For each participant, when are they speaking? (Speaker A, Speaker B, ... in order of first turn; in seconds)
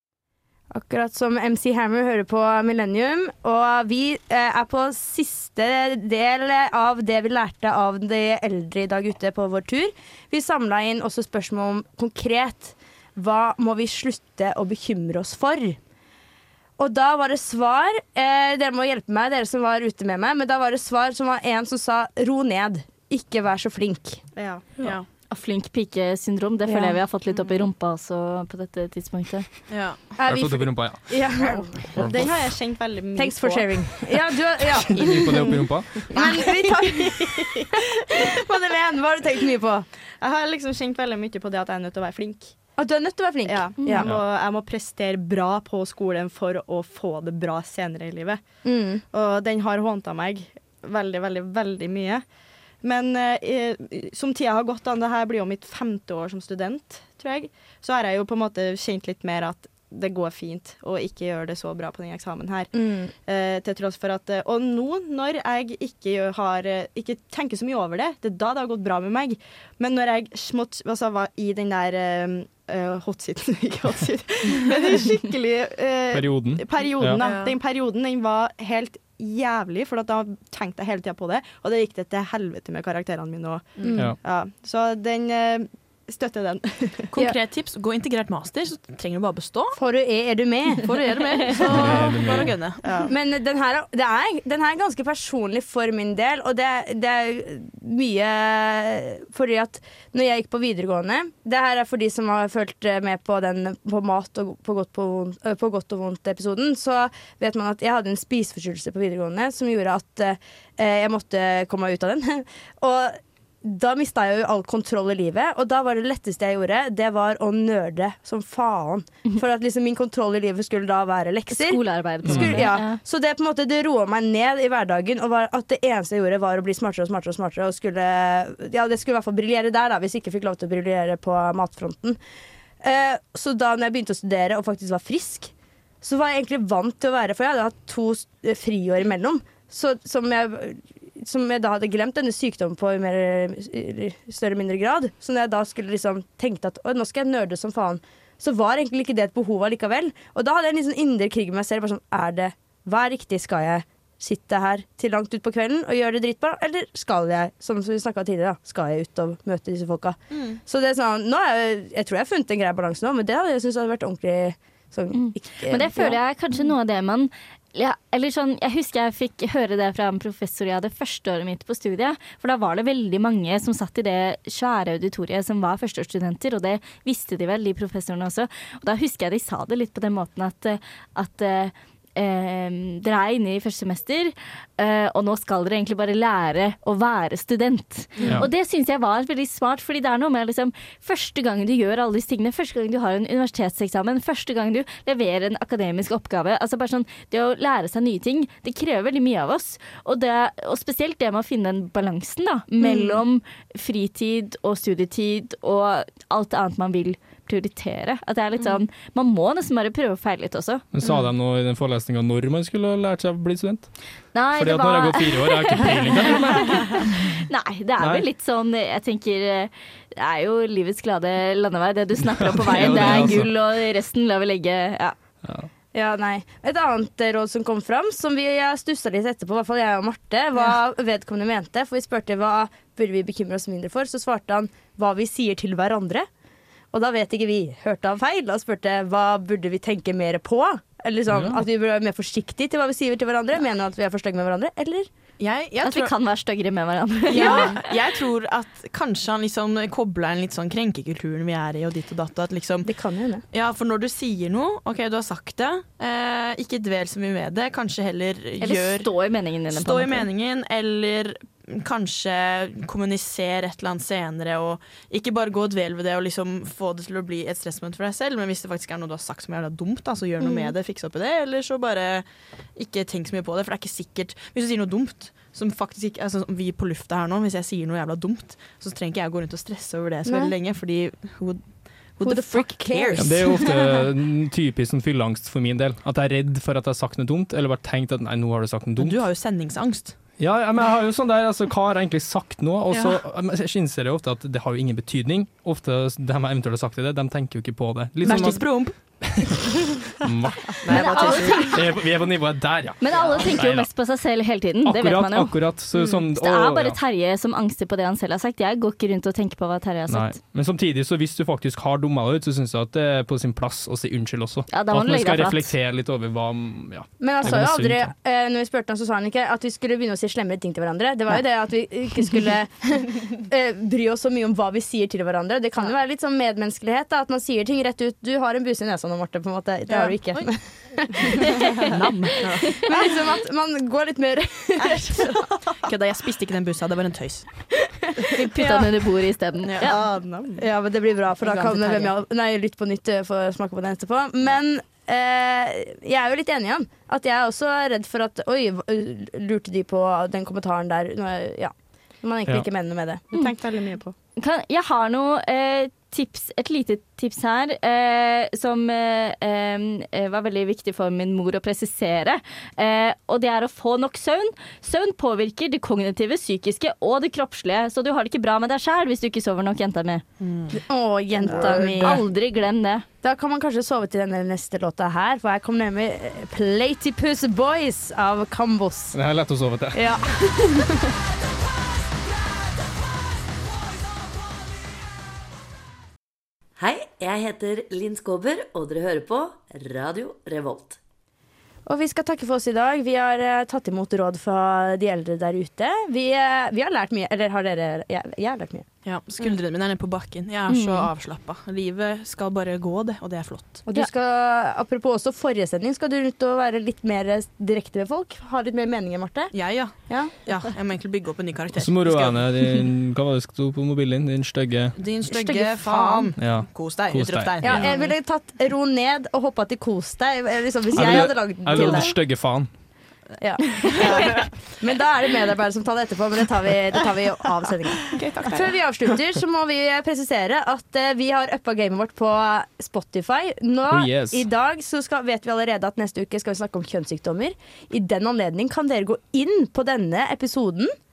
Speaker A: 0.7-15.8, 16.8-24.3, 26.7-27.0, 30.2-32.0, 33.1-37.6, 38.2-39.9, 42.8-44.1, 48.6-49.0, 62.7-63.1, 89.8-91.0, 93.1-132.2, 132.8-166.2, 202.8-203.2, 225.9-236.3, 236.9-245.1, 247.3-247.8, 252.8-253.4, 270.4-270.8, 280.2-280.5, 282.2-283.8, 301.0-301.4, 317.2-331.4, 332.8-335.5, 340.6-353.2, 370.8-372.2, 373.2-379.2, 379.9-380.9, 391.9-398.9, 403.9-410.3, 415.3-416.3, 417.6-422.2, 423.4-440.9
Speaker B: 24.4-24.7, 31.9-33.7, 36.1-37.7, 40.2-42.6, 43.5-48.4, 49.1-52.2, 52.8-62.7, 63.2-87.1, 91.6-91.9, 92.8-93.1, 334.8-335.8, 339.8-340.6, 341.5-342.1, 353.3-354.1
Speaker C: 24.8-25.1, 29.7-30.1, 77.2-77.6, 87.1-89.8, 90.9-93.1, 160.3-160.6, 211.0-211.3, 245.4-246.1, 247.3-252.9, 253.5-259.1, 259.7-283.5, 289.0-290.2, 292.9-293.2, 298.2-299.0, 300.8-301.6, 329.9-330.5, 331.8-332.8, 335.9-337.7, 339.6-339.9, 370.4-370.8, 399.1-403.8, 409.5-412.5, 415.0-418.0, 423.9-424.5, 428.1-428.8
Speaker D: 25.3-29.5, 121.5-123.0, 165.1-210.8, 214.3-225.2, 245.8-247.9, 258.6-260.3, 300.9-301.8, 303.0-310.4, 314.7-315.7, 338.3-339.9, 354.4-370.2, 371.4-373.1, 400.7-401.1
Speaker E: 30.2-31.4, 31.9-32.5, 34.9-36.1, 76.1-77.2, 91.7-92.7, 122.3-122.7, 210.9-213.9, 214.5-217.4, 218.0-218.2, 222.4-223.5, 225.4-225.7, 283.2-289.3, 290.4-303.9, 304.8-307.0, 310.1-318.1, 379.1-380.2, 411.8-415.0, 416.4-418.0, 420.9-422.7, 433.9-434.4
Speaker F: 386.8-391.0